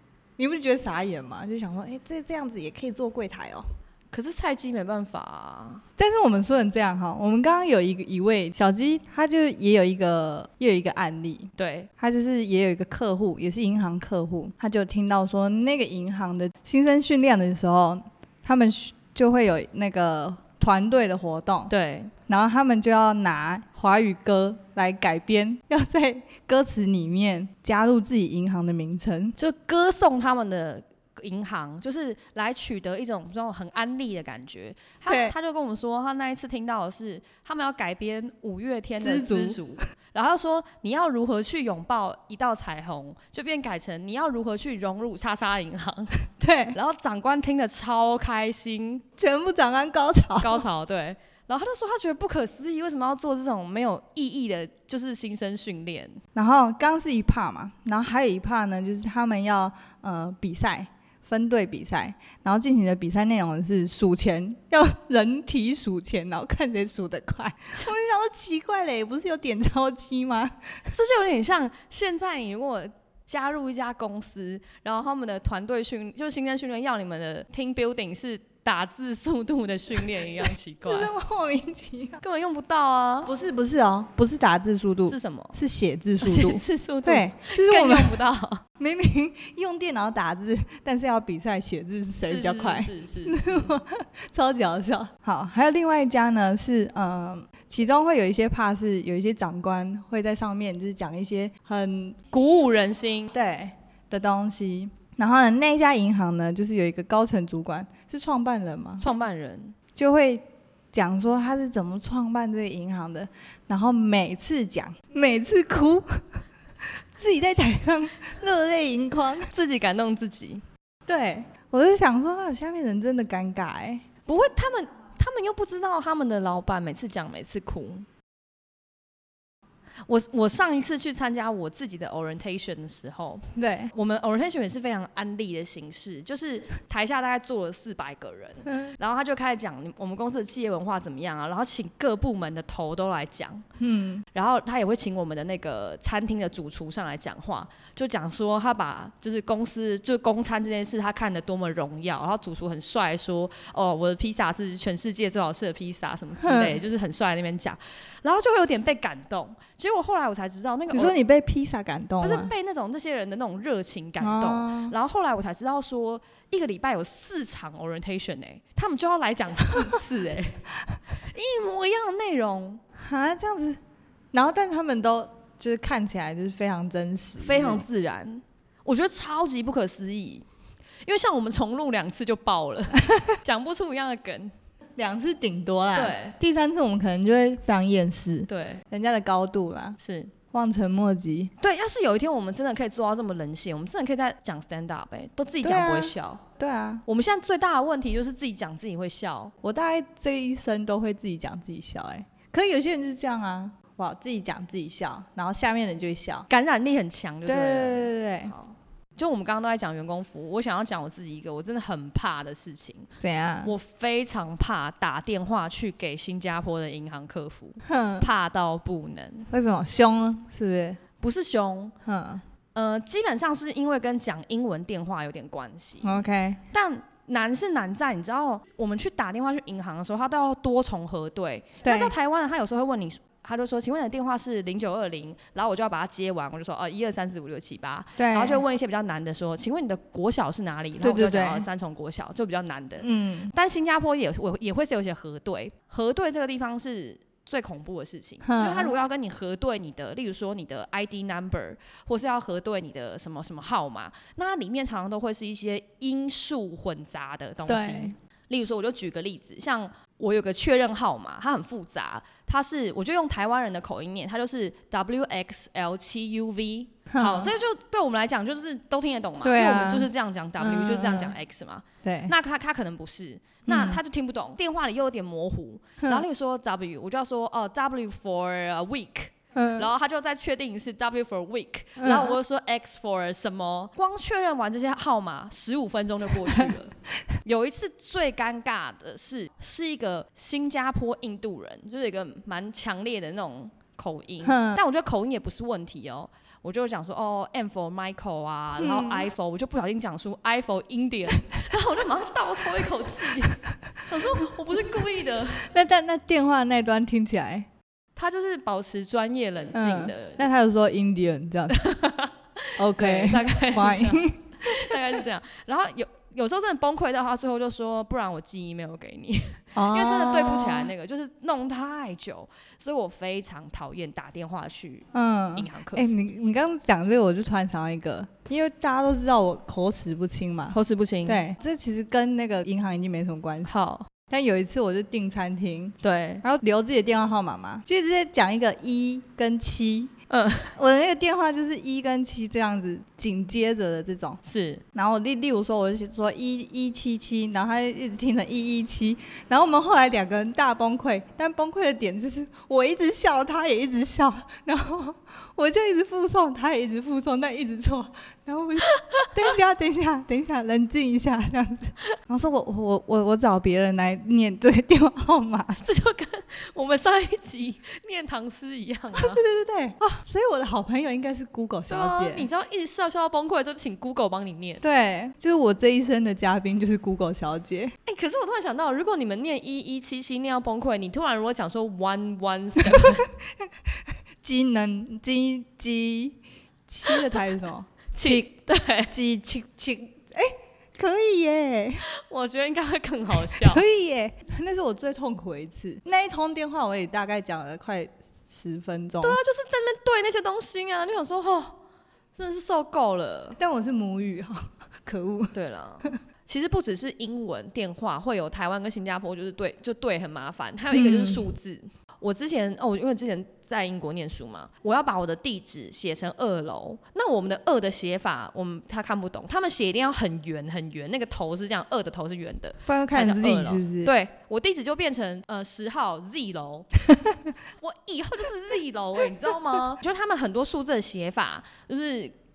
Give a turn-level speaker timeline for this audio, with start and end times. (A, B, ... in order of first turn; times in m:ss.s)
0:00.4-0:03.6 A
0:04.1-0:05.8 B
0:06.0-0:21.7 A
0:11.6-0:11.9 B
0:21.7-0:22.1 B
0:22.3-0:29.3 A
0:29.4-0:46.2 B
0:35.1-0:35.3 A
0:39.0-0:39.6 A
0:46.4-0:46.8 A
0:46.7-0:49.0 B
0:49.2-0:50.6 A
0:50.4-0:56.2 B
0:56.3-1:10.9 A
1:10.9-1:21.1 B
1:20.8-1:22.2 A
1:22.2-1:23.3 B
1:23.2-1:28.2 A
1:25.0-1:25.6 B
1:26.2-1:28.6 B
1:28.8-1:42.2 A
1:32.2-1:33.8 B
1:42.3-1:43.3 B
1:43.3-1:49.0 A
1:49.0-1:49.8 B
1:49.9-1:56.2 A
1:57.0-1:59.5 A
1:59.5-2:00.6 B
2:01.1-2:04.0 A
2:04.3-2:08.1 B
2:10.1-2:23.6 B
2:13.6-2:13.9 A
2:23.8-2:24.2 A
2:24.3-2:41.1 B
2:36.4-2:36.8 A
2:40.9-2:42.5 A
2:42.2-2:50.6 B
2:44.2-2:44.9 A
2:51.2-2:52.8 B
2:53.0-2:53.8 A
2:54.3-2:57.8 A
2:57.4-3:00.4 B
3:01.0-3:04.5 B
3:05.0-3:10.0 A
3:05.9-3:06.4 B
3:08.5-3:08.8 B
3:10.0-3:10.3 B
3:10.5-3:11.5 A
3:11.6-3:16.4 B
3:15.6-3:17.0 A
3:17.0-3:19.5 B
3:19.6-3:26.5 A
3:26.5-3:33.1 B
3:27.4-3:28.5 A
3:33.2-3:33.7 A
3:33.6-3:39.5 B
3:37.8-3:38.3 A
3:39.5-3:41.0 A
3:41.2-3:41.9 B
3:42.0-3:42.4 A
3:42.7-5:05.7 B
3:46.0-3:46.6 A
3:51.8-3:52.1 A
3:58.2-3:58.6 A
4:01.0-4:01.7 A
4:03.0-4:03.5 A
4:08.4-4:08.9 A
4:17.7-4:18.1 A
4:27.1-4:27.5 A
4:29.4-4:31.4 A
4:32.0-4:32.3 A
4:33.6-4:34.0 A
4:39.5-4:39.9 A
4:42.0-4:42.3 A
4:46.5-4:46.7 A
4:54.4-4:54.8 A
4:58.8-4:59.3 A
5:02.8-5:04.5 A
5:05.5-5:07.7 A
5:08.2-5:10.5 B
5:09.7-5:11.8 A
5:11.7-5:26.3 B
5:12.8-5:15.2 A
5:19.8-5:20.9 A
5:25.1-5:33.7 A
5:30.7-5:31.4 B
5:33.7-5:34.1 B
5:34.3-5:40.1 A
5:36.0-5:36.4 B
5:40.3-5:40.7 B
5:40.8-5:44.4 A
5:44.4-5:44.8 B
5:44.9-6:05.8 A
6:05.8-6:09.4 B
6:09.2-6:12.5 A
6:11.9-6:14.8 B
6:14.8-6:17.9 A
6:18.0-6:23.3 B
6:22.8-6:23.3 A
6:24.4-6:28.5 A
6:28.1-6:29.1 B
6:29.1-6:32.0 A
6:32.0-6:33.8 B
6:33.5-6:39.4 A
6:39.2-6:41.8 B
6:42.4-6:43.6 B
6:43.6-6:45.5 A
6:45.5-7:06.9 B
6:50.9-6:51.5 A
7:02.9-7:04.1 A
7:07.1-7:07.3 A
7:07.8-7:12.3 B